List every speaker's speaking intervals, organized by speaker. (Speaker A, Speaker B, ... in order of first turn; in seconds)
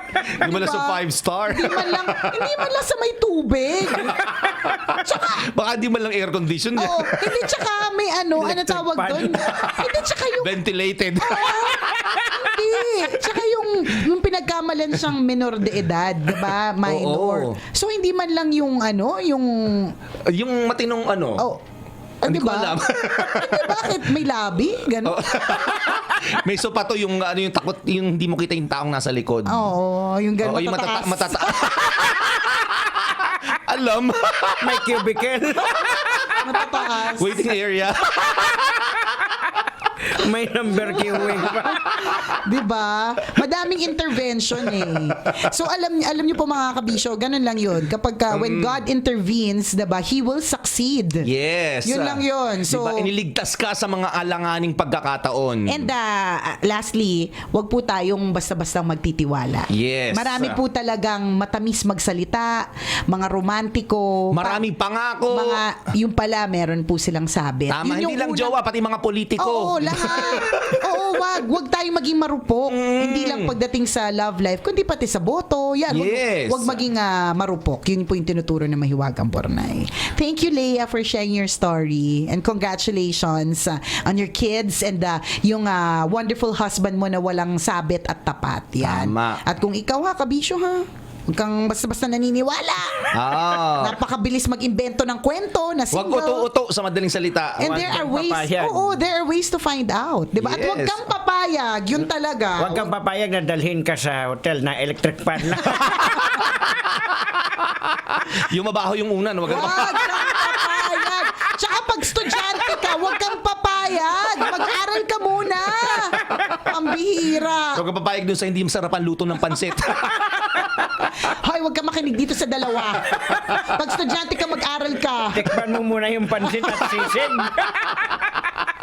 Speaker A: 0.3-2.6, 4.0-7.4, 9.5-12.2, 16.8-17.6, 20.3-21.5, 22.2-24.1, 25.0-29.6, 30.4-34.9, 35.9-36.4, 37.1-39.1, 48.3-48.8, 51.2-55.9, 59.7-60.6, 64.3-65.6, 67.7-71.1, 72.7-73.5, 75.9-76.8, 88.8-89.4, 93.1-94.0, 95.9-98.1, 100.4-101.0, 107.0-110.7, 117.7-120.3
Speaker B: 0.3-4.3, 4.9-5.5, 6.8-10.6, 11.2-19.9, 22.2-25.6, 29.5-32.1, 36.4-37.4, 41.1-51.2, 51.8-53.1, 55.7-64.7, 65.3-68.5, 69.4-96.5, 97.6-102.9, 109.5-117.8, 121.2-125.4
Speaker C: 8.4-9.4, 34.6-36.2, 40.1-41.8, 97.7-98.8, 102.6-106.4, 125.3-127.9